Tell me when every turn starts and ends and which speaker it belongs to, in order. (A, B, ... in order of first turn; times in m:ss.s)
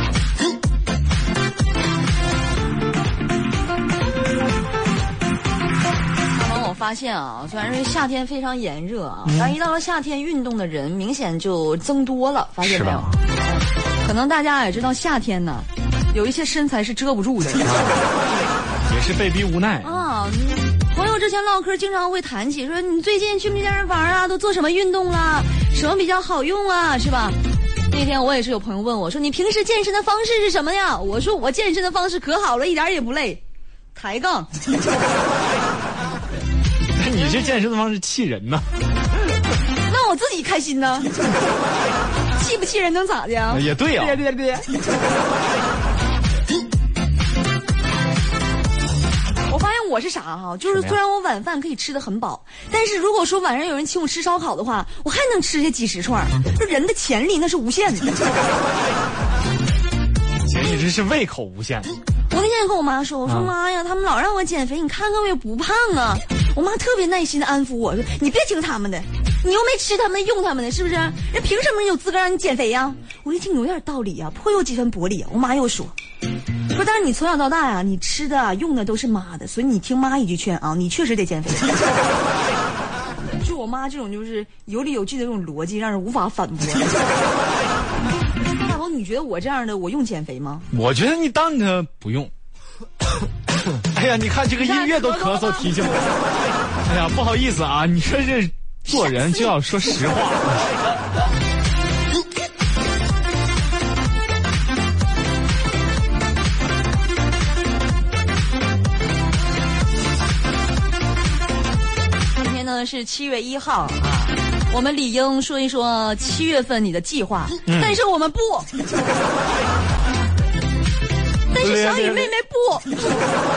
0:06.3-0:17.7 A
0:09.2-0:09.5 B
0:12.6-0:13.1 B
0:17.6-0:18.1 B
0:18.8-0:19.9 B
0:19.8-0:27.4 A
0:27.9-0:33.4 A
0:33.9-0:34.5 A
0:36.9-0:38.6 B
0:37.2-0:37.5 A
0:39.9-0:41.1 A
0:42.4-0:44.7 A
0:43.5-0:44.2 B
0:49.5-0:58.1 A
0:50.7-0:51.0 B
1:00.4-1:01.9 B
1:02.3-1:15.9 A
1:03.2-1:03.5 B
1:16.7-1:21.7 A
1:23.4-1:26.9 A
1:28.5-1:30.6 A
1:30.7-1:32.3 B
1:33.9-1:36.1 B
1:34.6-1:35.7 A
1:36.8-1:40.7 B
1:38.9-1:39.5 A
1:52.4-1:58.7 A
1:57.6-1:57.9 B
2:01.5-2:03.0 A
2:01.6-2:02.3 B